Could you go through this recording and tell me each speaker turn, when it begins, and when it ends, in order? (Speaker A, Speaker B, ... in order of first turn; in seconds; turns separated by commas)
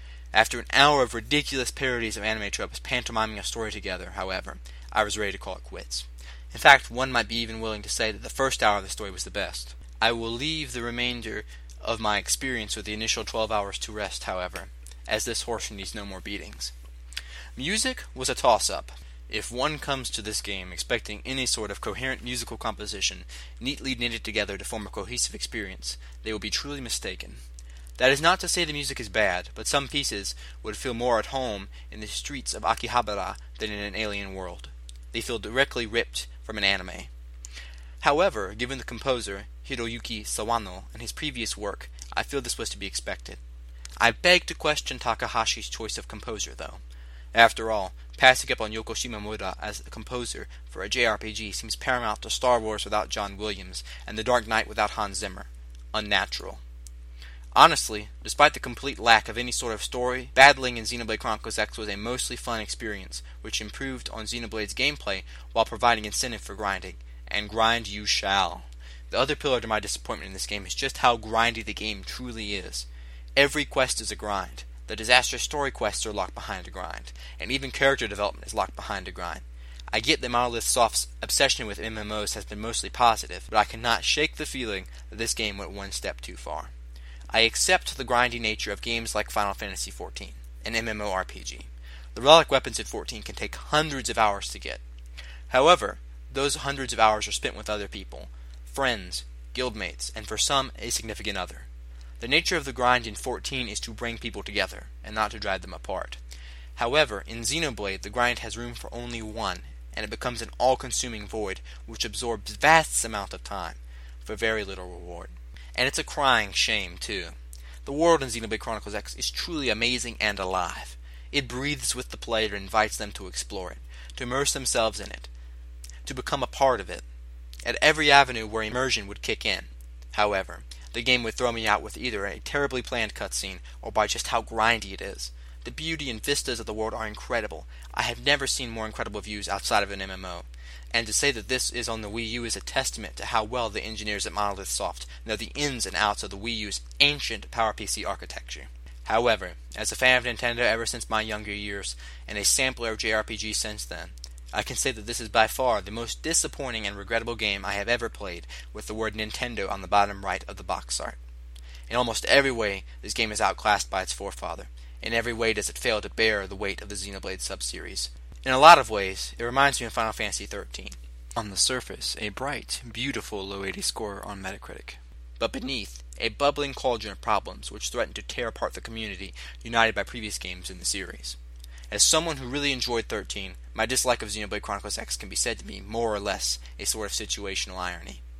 Speaker A: 0.3-16.7, Speaker A: 17.6-27.4, Speaker A: 28.0-37.1, Speaker A: 38.0-43.4, Speaker A: 44.0-46.8, Speaker A: 47.3-56.6, Speaker A: 57.5-86.7, Speaker A: 87.3-94.8, Speaker A: 95.5-101.7, Speaker A: 102.2-106.2, Speaker A: 106.8-117.3, Speaker A: 117.8-125.3, Speaker A: 126.0-127.0, Speaker A: 127.6-161.2, Speaker A: 161.9-181.4, Speaker A: 181.9-188.2